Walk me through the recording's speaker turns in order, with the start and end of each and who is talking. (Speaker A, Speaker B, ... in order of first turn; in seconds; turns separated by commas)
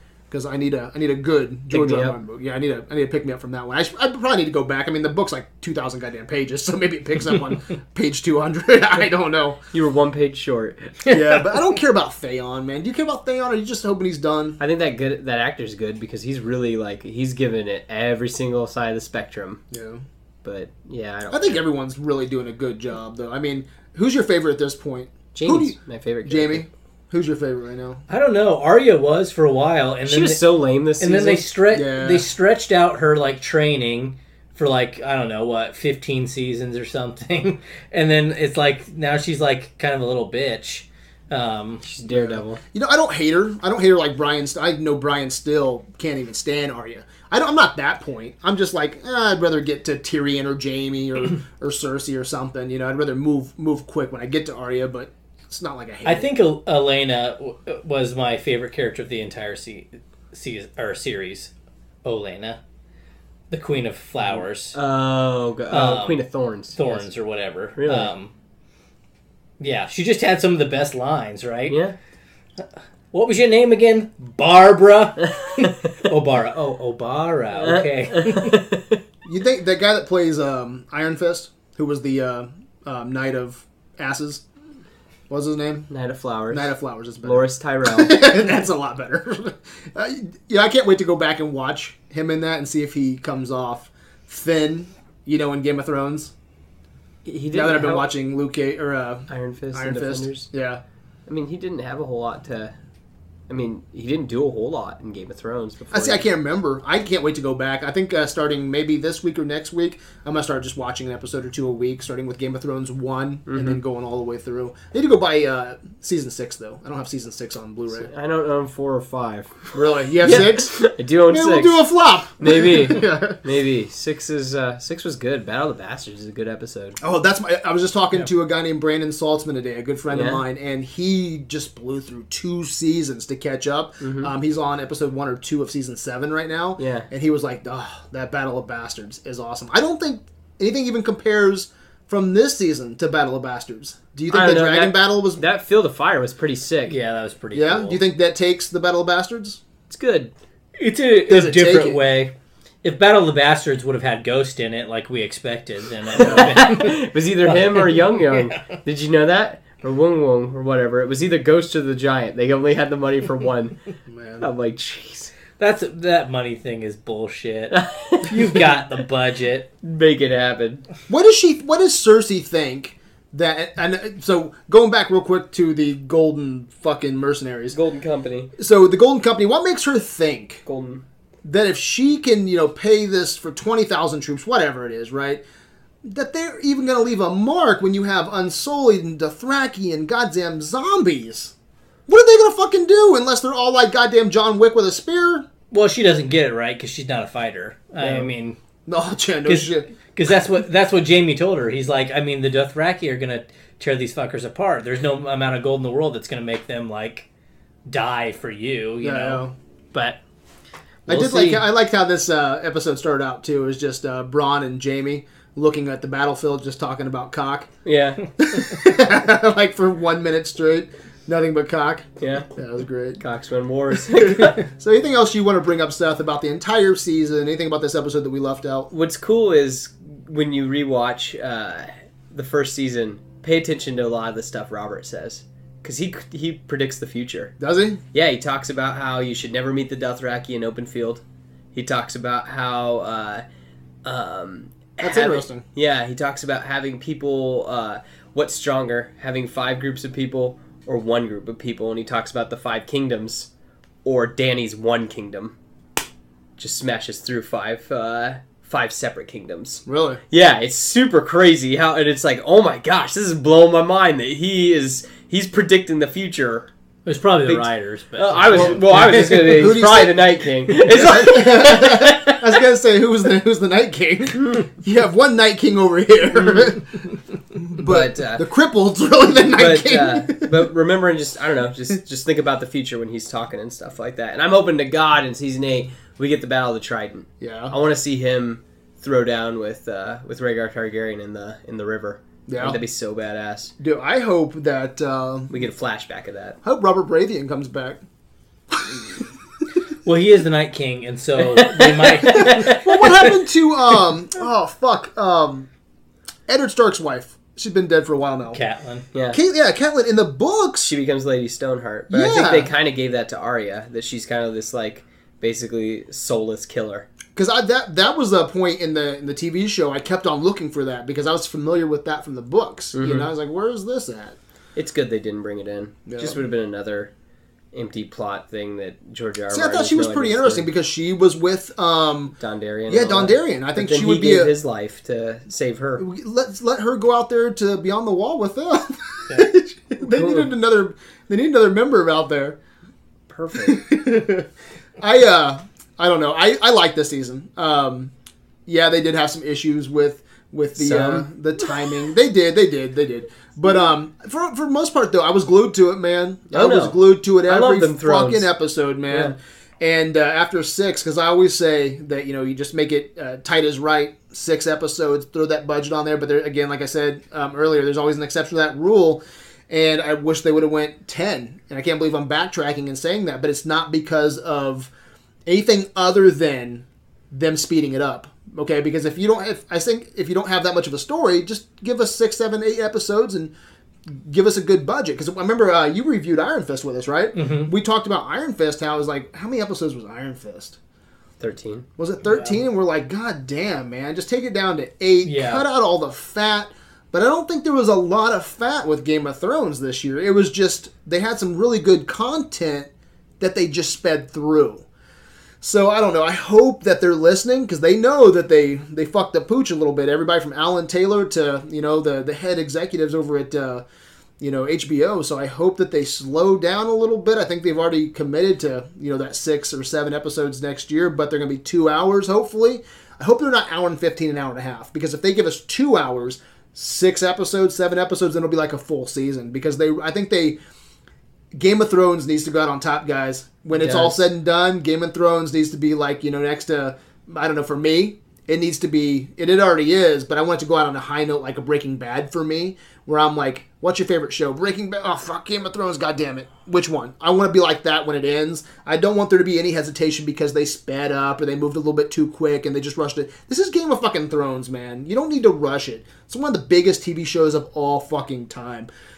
Speaker A: 0.3-9.6, Speaker B: 1.7-2.2, Speaker B: 9.7-10.9, Speaker A: 11.1-14.6, Speaker B: 14.6-19.6, Speaker A: 19.7-20.0, Speaker B: 20.4-21.6, Speaker A: 21.3-28.0, Speaker B: 25.4-26.7, Speaker C: 28.1-30.4, Speaker B: 30.1-31.4, Speaker C: 31.0-41.8, Speaker A: 31.7-32.3, Speaker B: 41.8-42.6, Speaker A: 42.1-56.3, Speaker C: 56.0-61.5, Speaker C: 62.0-62.6, Speaker C: 63.5-64.8, Speaker B: 64.2-67.0, Speaker C: 65.7-66.2, Speaker C: 66.8-68.3, Speaker B: 67.8-68.1, Speaker C: 69.6-71.8, Speaker B: 71.7-72.0, Speaker C: 73.1-78.6, Speaker B: 77.5-79.0, Speaker A: 79.2-84.4, Speaker A: 85.3-85.9, Speaker B: 85.9-88.2, Speaker A: 86.5-96.3, Speaker B: 97.2-98.1, Speaker A: 97.5-100.8, Speaker B: 99.3-100.5, Speaker B: 101.3-102.8, Speaker B: 103.5-106.2, Speaker A: 105.9-118.1, Speaker B: 113.5-113.8, Speaker B: 117.9-119.7, Speaker A: 119.7-123.4, Speaker B: 120.2-121.9, Speaker B: 122.4-127.0, Speaker A: 127.0-145.4, Speaker B: 130.1-130.4, Speaker B: 134.0-134.3, Speaker B: 136.8-137.1, Speaker B: 144.3-147.0, Speaker C: 146.9-148.0, Speaker A: 147.5-149.6, Speaker B: 149.9-150.3, Speaker C: 150.8-152.3, Speaker A: 151.3-152.0, Speaker C: 152.8-158.6, Speaker B: 156.2-163.8, Speaker A: 156.2-156.6, Speaker A: 164.1-164.5, Speaker B: 164.4-165.3, Speaker C: 165.6-169.7, Speaker B: 167.7-168.6, Speaker B: 169.8-170.8, Speaker A: 171.1-177.8, Speaker B: 177.7-178.5, Speaker A: 178.6-180.6, Speaker B: 180.7-181.0, Speaker A: 181.4-185.4, Speaker A: 186.0-191.5, Speaker A: 192.1-195.5, Speaker C: 195.7-198.6, Speaker B: 198.0-198.3, Speaker A: 198.9-199.8, Speaker C: 199.5-207.3, Speaker C: 207.9-210.2, Speaker A: 209.0-209.5, Speaker C: 211.1-211.7, Speaker A: 211.1-217.7, Speaker B: 217.8-218.2, Speaker A: 218.4-223.2, Speaker B: 222.2-222.5, Speaker B: 223.2-224.6, Speaker A: 224.1-228.9, Speaker B: 228.9-237.5, Speaker A: 237.6-238.0, Speaker B: 238.1-241.2, Speaker B: 241.7-243.4, Speaker B: 244.1-253.5, Speaker A: 245.0-245.6, Speaker B: 254.1-255.6, Speaker B: 256.6-266.7, Speaker A: 259.9-260.2, Speaker C: 267.1-269.8, Speaker B: 267.5-272.6, Speaker A: 268.5-280.6, Speaker B: 277.8-278.4, Speaker B: 279.6-293.7, Speaker A: 287.4-287.7, Speaker A: 292.5-292.8, Speaker A: 293.8-295.5, Speaker B: 295.5-296.6, Speaker A: 296.6-298.0, Speaker A: 298.7-299.2, Speaker C: 300.1-303.2, Speaker B: 301.4-302.8, Speaker A: 302.5-305.7, Speaker A: 306.5-308.6, Speaker C: 308.5-309.1, Speaker B: 309.1-309.4, Speaker A: 309.3-310.9, Speaker B: 310.8-317.1, Speaker A: 312.1-312.7, Speaker A: 317.4-324.4, Speaker B: 322.9-323.3, Speaker B: 324.8-327.1, Speaker A: 326.1-326.4, Speaker B: 327.7-330.7, Speaker A: 329.5-332.4, Speaker B: 332.4-336.1, Speaker A: 332.9-334.5, Speaker A: 336.0-342.6, Speaker B: 340.0-340.5, Speaker B: 343.3-343.8, Speaker A: 343.6-344.5, Speaker A: 345.0-348.1, Speaker A: 348.7-374.9, Speaker B: 350.8-351.3, Speaker B: 356.5-358.5, Speaker B: 359.1-359.4, Speaker A: 375.5-383.5, Speaker A: 384.1-390.8, Speaker C: 387.4-387.7, Speaker B: 391.4-391.9, Speaker A: 392.0-402.9, Speaker C: 392.2-392.6, Speaker C: 395.2-395.6, Speaker A: 403.4-404.9, Speaker A: 405.6-413.9, Speaker A: 414.4-430.6, Speaker A: 431.6-458.9, Speaker B: 433.7-434.2